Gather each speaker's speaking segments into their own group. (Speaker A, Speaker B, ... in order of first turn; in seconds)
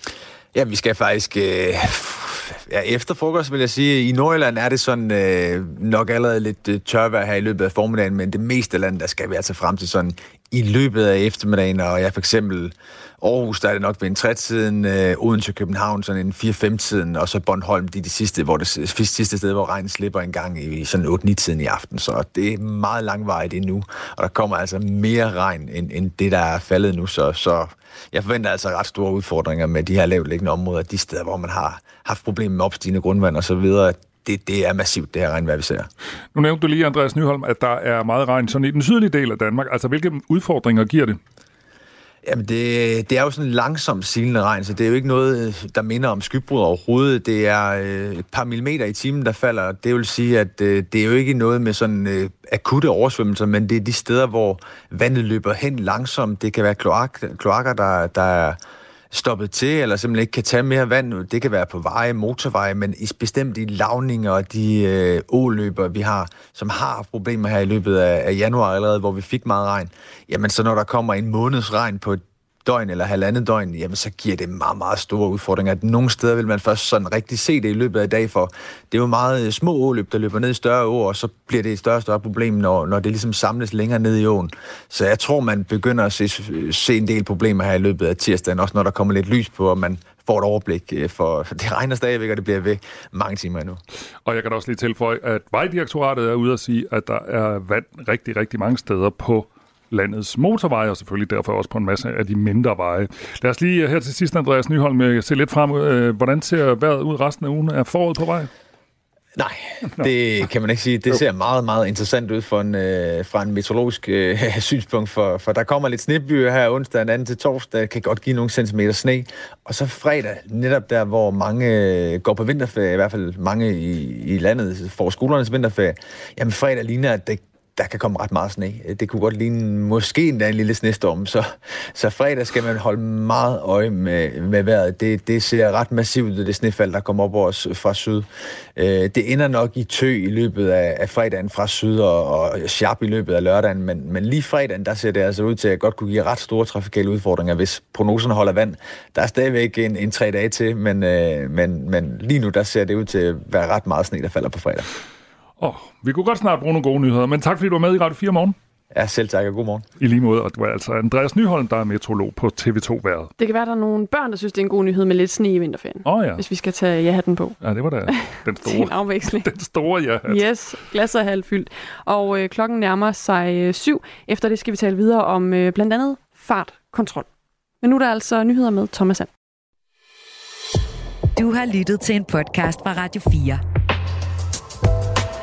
Speaker A: 0.5-35.9, 42.2-58.6, 59.1-93.8, 109.4-154.9, 158.9-159.8
Speaker B: 36.4-41.2, 94.3-108.5, 155.6-158.6, 160.0-163.3, 166.1-166.4, 167.6-170.4
Speaker C: 163.4-167.6, 168.1-169.5, 170.3-177.3, 177.8-179.3
Speaker D: 181.4-183.6